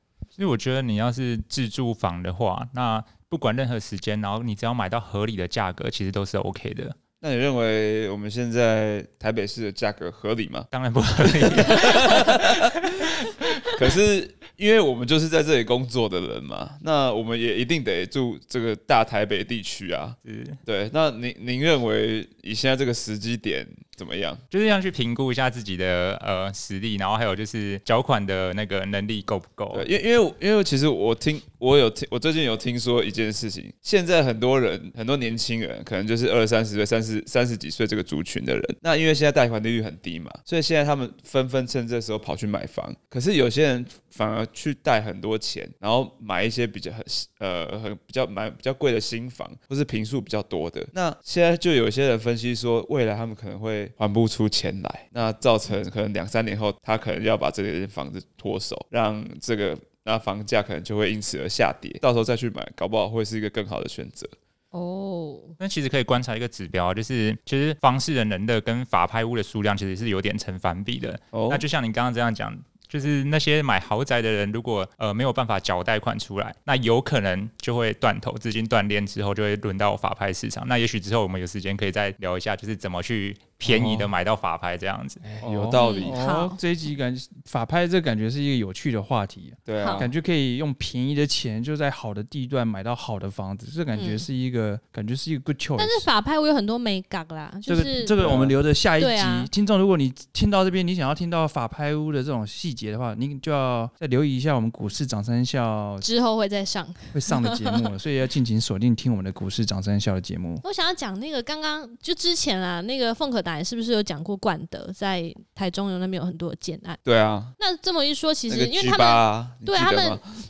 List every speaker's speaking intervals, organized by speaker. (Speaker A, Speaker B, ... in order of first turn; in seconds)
Speaker A: 0.4-7.0, 10.7-13.7, 20.2-20.6, 24.5-29.9, 65.6-85.3
Speaker B: 7.2-10.7, 11.4-12.6, 13.8-24.4, 29.7-64.3, 71.3-71.6, 85.4-86.2, 89.7-90.1, 98.2-98.5, 117.0-117.6, 118.5-120.2
Speaker C: 64.7-65.5, 85.8-86.6, 89.8-90.1, 94.0-94.3, 95.8-98.2, 99.0-99.5, 106.0-107.8, 110.6-117.0, 117.6-120.2
Speaker D: 83.6-84.1, 85.2-96.1, 97.7-106.0, 107.1-110.6